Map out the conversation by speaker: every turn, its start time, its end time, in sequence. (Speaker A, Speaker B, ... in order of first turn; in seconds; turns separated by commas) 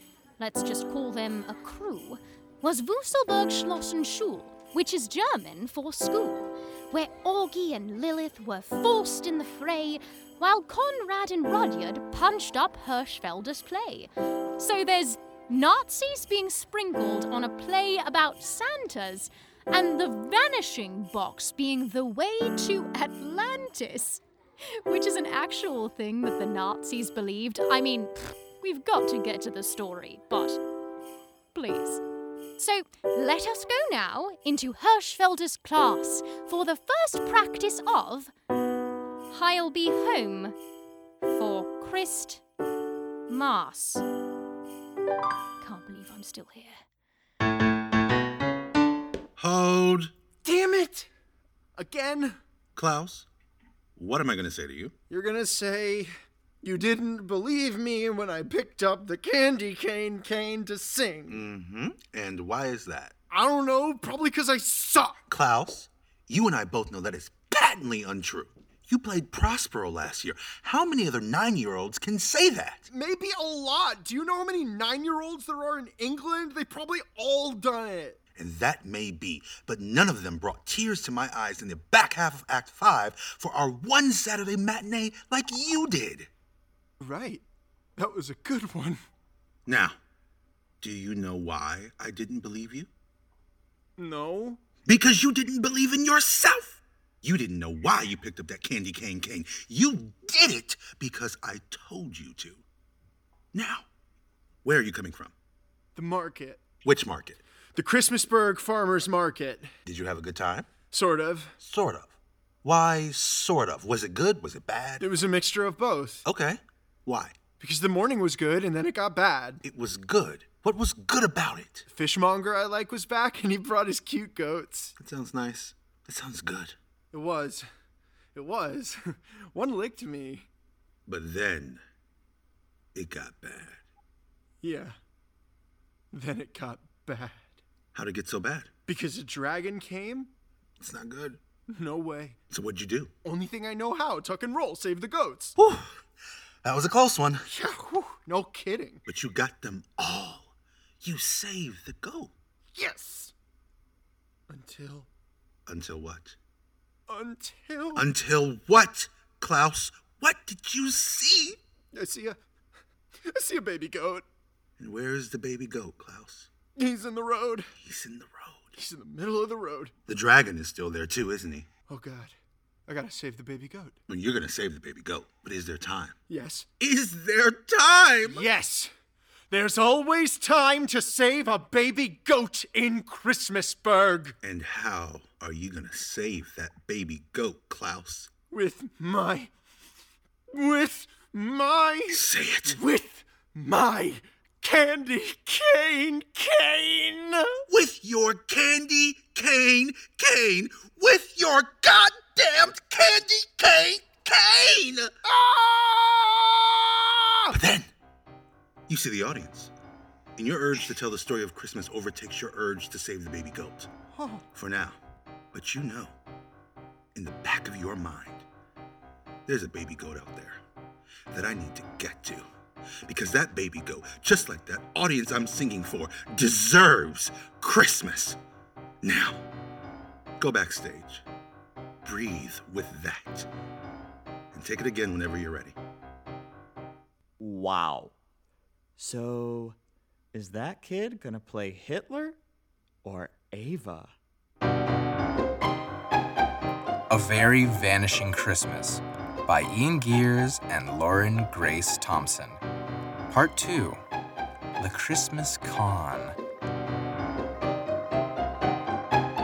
Speaker A: 0.4-24.2, Speaker A: 24.7-30.6, Speaker A: 31.5-32.0, Speaker A: 32.6-38.3, Speaker A: 39.3-40.5, Speaker A: 41.3-42.4, Speaker A: 43.3-44.0, Speaker A: 45.6-46.8, Speaker B: 49.4-50.1, Speaker C: 50.4-51.1, Speaker C: 51.8-52.4, Speaker B: 52.8-53.2, Speaker B: 54.0-54.9, Speaker C: 55.1-56.1, Speaker C: 56.6-61.4, Speaker B: 61.2-63.1, Speaker C: 63.3-65.1, Speaker B: 65.3-72.8, Speaker C: 72.9-78.2, Speaker B: 78.3-86.3, Speaker C: 87.0-87.4, Speaker C: 88.0-89.0, Speaker B: 89.7-90.0, Speaker B: 90.8-92.9, Speaker C: 94.0-94.6, Speaker B: 94.8-102.6, Speaker B: 103.5-103.9, Speaker B: 104.6-105.3, Speaker C: 105.9-106.6, Speaker B: 106.8-107.4, Speaker C: 107.8-109.7, Speaker B: 109.8-110.7, Speaker C: 110.9-111.5, Speaker B: 111.6-112.1, Speaker B: 112.6-115.0, Speaker C: 115.0-116.2, Speaker B: 116.2-117.3, Speaker C: 117.6-119.6, Speaker B: 119.6-121.8, Speaker C: 121.9-124.9, Speaker B: 125.0-126.7, Speaker C: 127.1-127.6, Speaker C: 128.3-130.4, Speaker B: 131.1-131.8, Speaker B: 132.9-133.8, Speaker C: 134.6-134.9, Speaker C: 136.1-137.6, Speaker B: 137.9-138.7, Speaker C: 138.9-140.3, Speaker B: 140.8-141.4, Speaker C: 141.7-142.3, Speaker B: 142.5-143.1, Speaker C: 143.2-145.6, Speaker B: 145.6-146.0, Speaker B: 146.6-147.4, Speaker C: 147.5-149.0, Speaker B: 149.1-152.3, Speaker C: 152.7-153.3, Speaker C: 154.5-155.1, Speaker B: 155.7-156.3, Speaker C: 157.1-158.1, Speaker B: 157.9-161.6, Speaker C: 161.9-162.4, Speaker C: 163.2-164.2, Speaker B: 164.8-166.5, Speaker C: 166.8-167.7, Speaker B: 167.8-168.7, Speaker C: 168.7-169.9, Speaker B: 170.1-171.7, Speaker C: 171.9-172.3, Speaker C: 172.9-173.9, Speaker B: 174.1-176.2, Speaker C: 176.3-176.7, Speaker B: 176.8-178.5, Speaker C: 178.2-178.9, Speaker C: 179.5-184.3, Speaker B: 184.4-188.3, Speaker C: 188.5-189.5, Speaker C: 190.5-197.6, Speaker B: 192.1-192.8, Speaker B: 197.7-205.1, Speaker C: 205.2-207.5, Speaker B: 207.5-207.9, Speaker B: 208.9-209.7, Speaker B: 210.3-213.9, Speaker C: 214.1-214.4, Speaker B: 214.5-215.0, Speaker B: 215.5-216.1, Speaker B: 217.1-218.4, Speaker B: 219.5-220.6, Speaker B: 221.3-222.4, Speaker B: 223.1-228.4, Speaker B: 229.0-229.4, Speaker B: 230.4-231.2, Speaker B: 232.0-233.5, Speaker B: 234.5-235.8, Speaker D: 237.4-238.1, Speaker D: 239.0-239.8, Speaker D: 240.3-242.4, Speaker D: 243.0-244.1, Speaker E: 247.1-252.6, Speaker E: 253.3-254.0, Speaker E: 254.8-256.4